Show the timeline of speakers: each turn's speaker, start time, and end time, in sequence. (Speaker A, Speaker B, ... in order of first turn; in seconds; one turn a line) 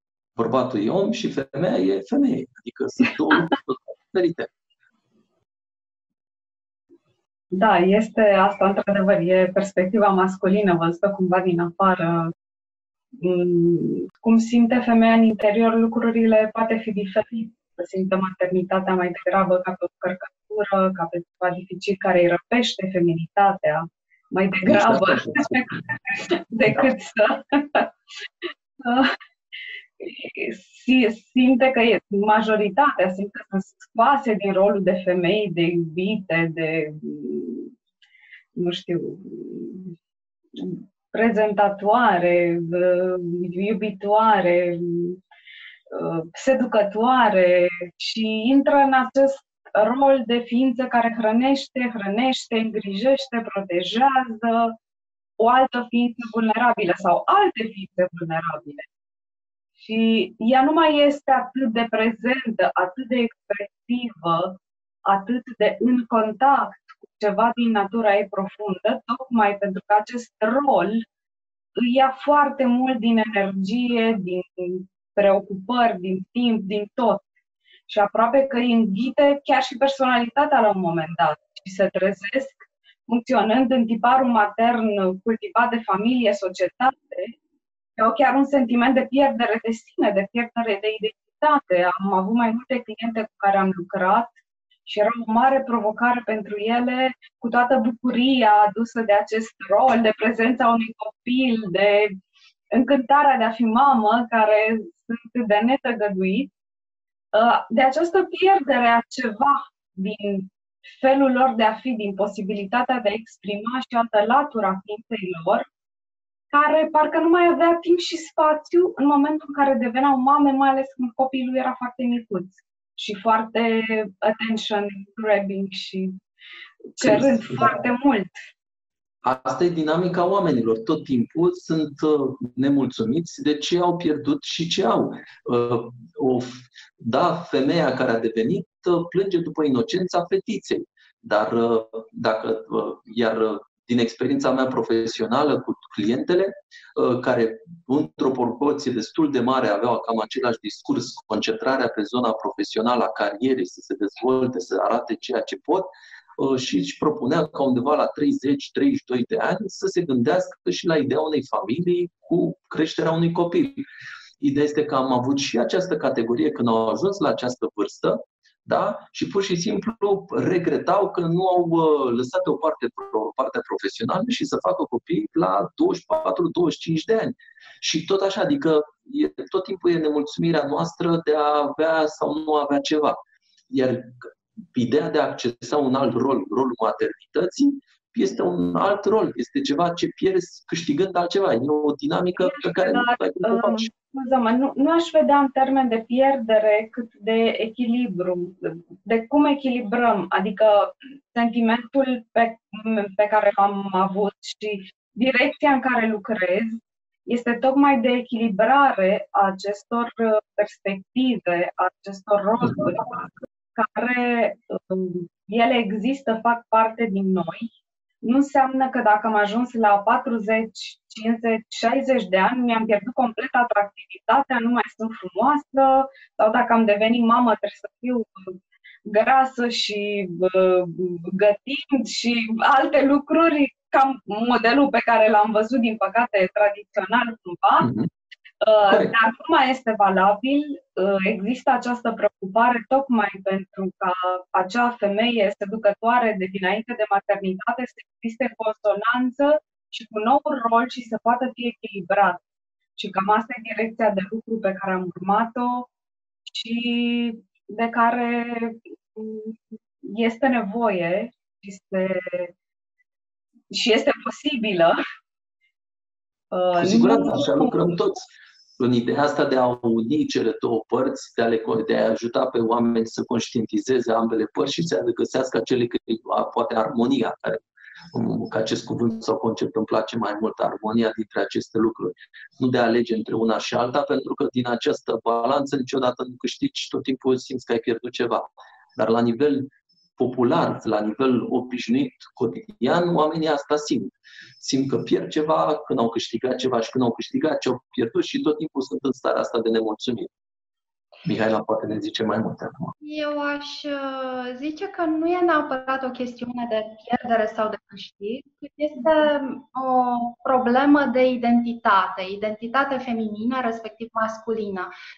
Speaker A: 0.4-4.5
Speaker B: 7.5-12.3
Speaker B: 13.2-27.9
Speaker A: 24.7-25.6
Speaker B: 28.8-29.1
Speaker B: 30.0-37.7
Speaker B: 38.6-40.0
Speaker B: 40.5-45.2
Speaker B: 45.9-54.8
Speaker B: 55.4-58.9
Speaker B: 59.8-71.0
Speaker B: 71.8-77.3
Speaker B: 77.9-87.4
Speaker B: 88.0-94.3
Speaker B: 94.9-102.2
Speaker B: 102.7-106.5
Speaker B: 107.3-115.7
Speaker B: 116.5-126.2
Speaker B: 127.0-128.4
Speaker A: 127.0-127.9
Speaker A: 129.2-163.8
Speaker A: 164.4-183.2
Speaker A: 183.7-193.9
Speaker B: 192.4-217.7
Speaker B: 218.2-237.9
Speaker A: 237.8-238.1
Speaker B: 238.6-252.4
Speaker A: 238.9-239.2
Speaker B: 253.0-255.9
Speaker B: 256.5-262.5
Speaker B: 263.7-265.0
Speaker B: 266.5-267.9
Speaker A: 266.8-300.3
Speaker A: 301.2-302.9
Speaker C: 303.0-314.9